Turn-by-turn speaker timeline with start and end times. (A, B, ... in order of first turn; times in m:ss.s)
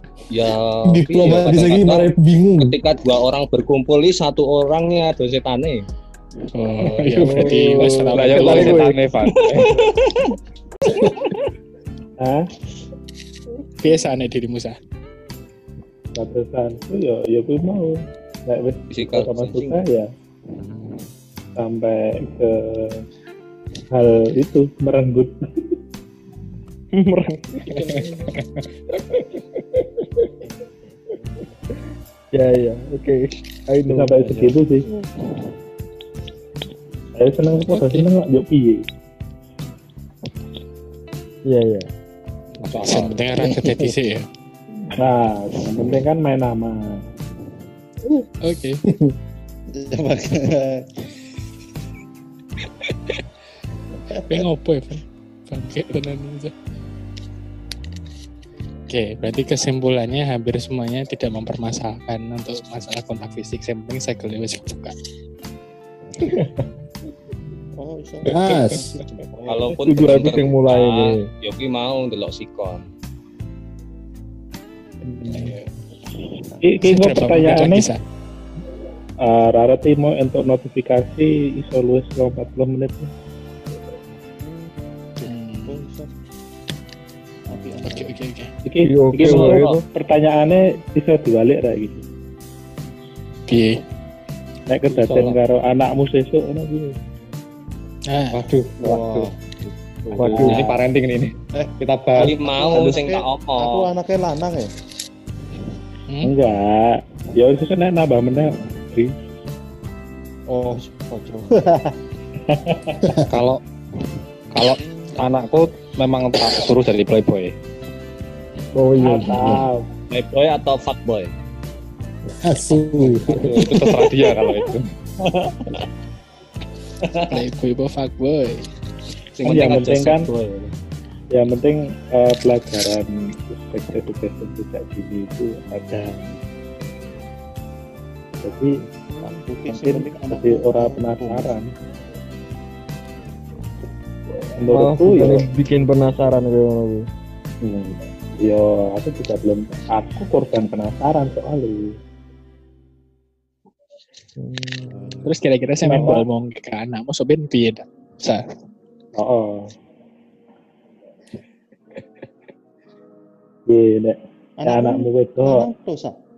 0:00.3-0:05.9 A
0:00.9-0:02.8 B
0:06.5-0:08.8 C
0:06.9-0:09.1 D
0:08.1-0:09.7 E
0:09.3-0:10.3 A
0:12.2-0:12.5 F
0:13.8-0:14.8 C
0:16.2-0:20.1 F
0:18.9-0:19.8 A
0:21.6-0:23.0 F
0:23.9-0:25.3 F
0:26.9-0:28.3 D
0:27.9-0:28.4 E
0:29.8-0:30.3 D
0:32.3-0:34.4 D
0:33.9-0:34.9 F
0:34.4-0:35.1 G
0:37.2-0:38.8 F
0:41.4-0:41.9 D
0:42.6-0:43.6 E
0:42.8-0:44.2 C
0:45.0-0:47.0 F
0:48.4-0:48.8 C
0:48.9-0:49.1 B
0:49.7-0:50.9 G
0:54.2-0:54.4 G
0:54.3-0:56.5 C
0:58.9-1:04.9 C
1:06.2-1:06.7 D
1:07.8-1:10.3 G
1:08.3-1:08.9 B
1:09.5-1:12.9 A
1:09.8-1:11.3 D
1:15.0-1:15.6 F
1:15.4-1:15.6 C
1:16.6-1:17.9 F
1:16.8-1:18.0 C
1:19.2-1:23.1 F
1:25.2-1:26.1 G
1:25.2-1:25.8 C
1:27.5-1:28.2 G
1:27.8-1:28.5 C
1:28.7-1:32.0 F
1:28.8-1:29.8 D
1:29.2-1:29.8 A
1:33.5-1:33.8 C
1:34.7-1:37.0 F
1:34.9-1:35.4 A
1:38.1-1:38.4 C
1:38.3-1:39.3 E
1:38.8-1:40.6 G
1:40.2-1:42.8 E
1:40.2-1:40.7 D
1:40.3-1:40.6 F
1:42.2-1:43.9 A
1:42.4-1:44.7 G
1:46.2-1:49.1 F
1:50.5-1:51.9 G
1:52.5-1:53.0 F
1:53.3-1:53.6 E
1:54.5-1:57.5 E
1:58.7-1:59.6 D
1:59.0-1:59.9 F
2:00.1-2:01.3 A
2:02.4-2:03.6 B
2:03.2-2:04.9 E
2:07.3-2:08.7 C
2:09.4-2:10.6 A
2:09.4-2:10.3 F
2:11.3-2:16.4 F
2:18.4-2:18.8 F
2:19.2-2:21.6 G
2:19.7-2:21.7 F
2:24.6-2:25.5 F
2:24.7-2:27.1 D
2:27.6-2:32.0 F
2:34.4-2:35.2 D
2:34.9-2:35.3 G
2:35.2-2:38.4 C
2:35.8-2:36.3 F
2:39.2-2:39.7 F
2:43.7-2:45.7 F
2:44.6-2:46.2 G